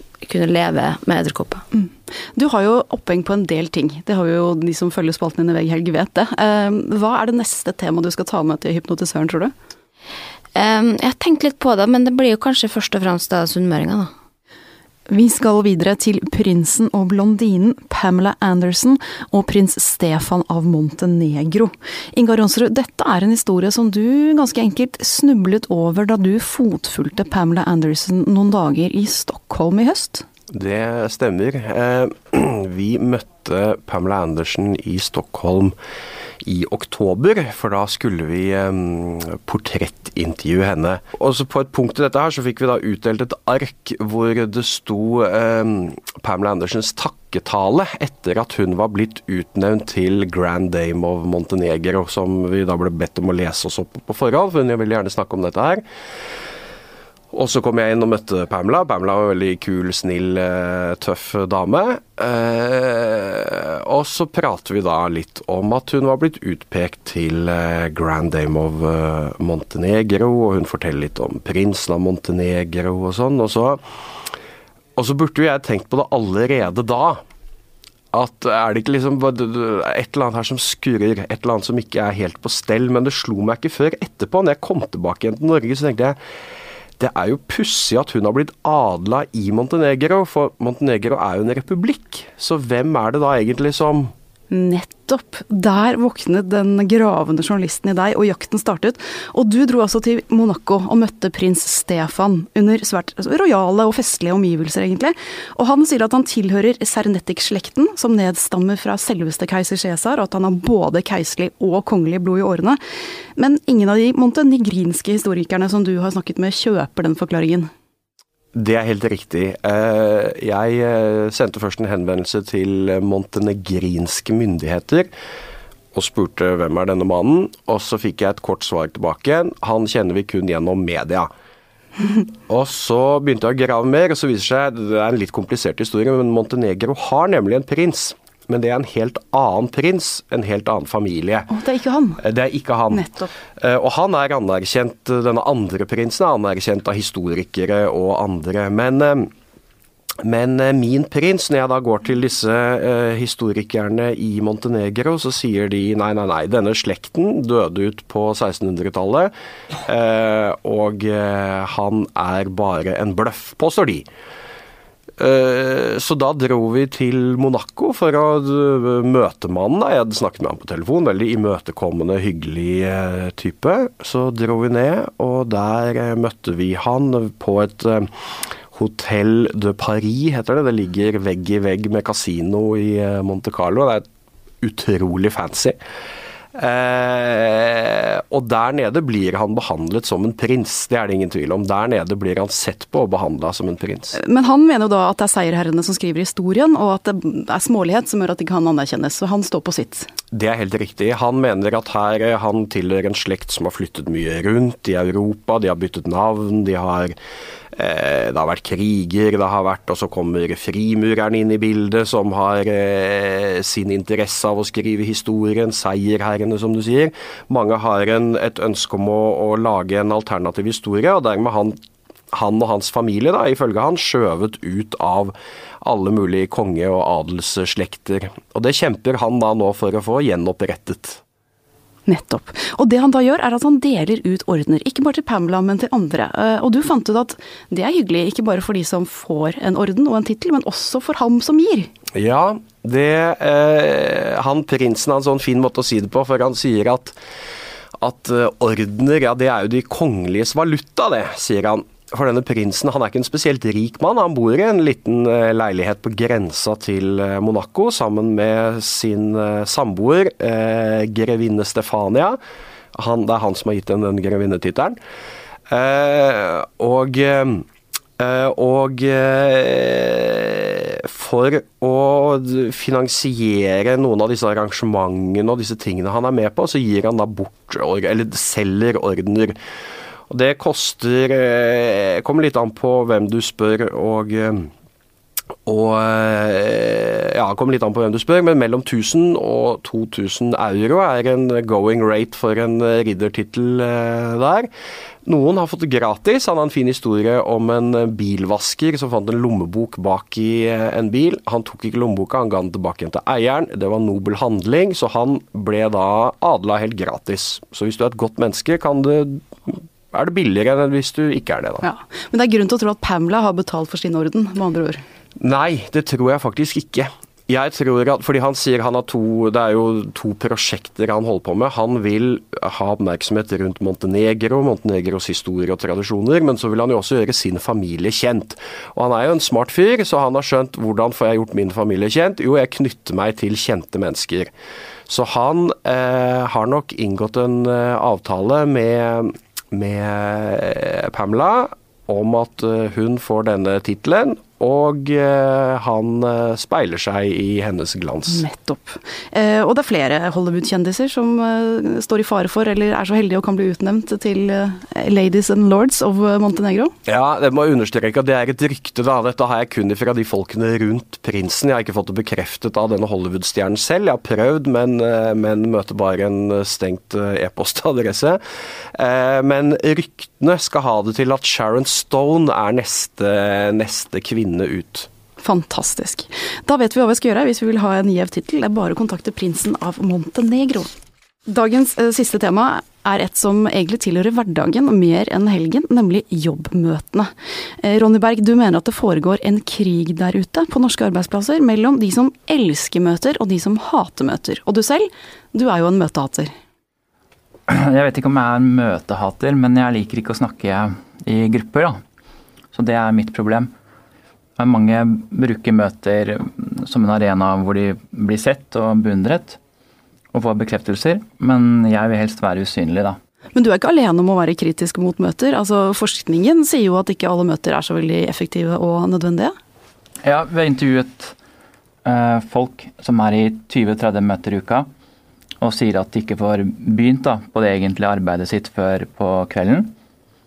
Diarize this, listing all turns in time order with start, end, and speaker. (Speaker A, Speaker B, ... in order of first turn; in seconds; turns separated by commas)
Speaker A: 0.2-1.6, Speaker B: 1.7-9.5, Speaker A: 10.6-14.1, Speaker B: 15.1-30.2, Speaker C: 30.5-35.8, Speaker C: 36.4-55.8, Speaker C: 57.3-73.8, Speaker C: 75.0-77.2, Speaker C: 78.1-86.2, Speaker C: 87.0-94.1, Speaker B: 94.5-112.8, Speaker B: 113.4-117.7, Speaker C: 118.5-125.1, Speaker C: 125.9-131.3, Speaker C: 132.5-141.5, Speaker B: 141.5-142.2, Speaker C: 142.2-143.0, Speaker B: 142.9-143.3, Speaker C: 143.6-149.3, Speaker C: 150.2-159.3, Speaker C: 159.8-164.1, Speaker C: 165.2-178.1, Speaker C: 178.7-184.1, Speaker C: 184.6-185.8, Speaker C: 186.6-194.2, Speaker B: 194.1-200.1, Speaker C: 200.3-207.2, Speaker C: 207.7-221.8, Speaker C: 222.3-231.2, Speaker B: 232.1-241.9, Speaker C: 242.2-247.2, Speaker C: 248.0-262.4, Speaker C: 262.9-265.0, Speaker C: 265.7-267.7, Speaker C: 268.2-279.6, Speaker C: 280.3-284.7, Speaker C: 285.7-294.7, Speaker C: 295.2-311.9, Speaker B: 311.8-315.0, Speaker C: 315.4-334.5, Speaker C: 335.1-348.5, Speaker B: 348.3-356.9, Speaker C: 357.1-368.4, Speaker C: 368.9-375.1, Speaker B: 375.4-380.9, Speaker B: 381.5-396.5, Speaker D: 397.7-402.0, Speaker D: 402.7-403.7, Speaker D: 404.6-409.6, Speaker D: 410.3-413.2, Speaker B: 413.6-419.5, Speaker D: 420.2-421.4, Speaker D: 422.1-424.9, Speaker D: 425.6-429.9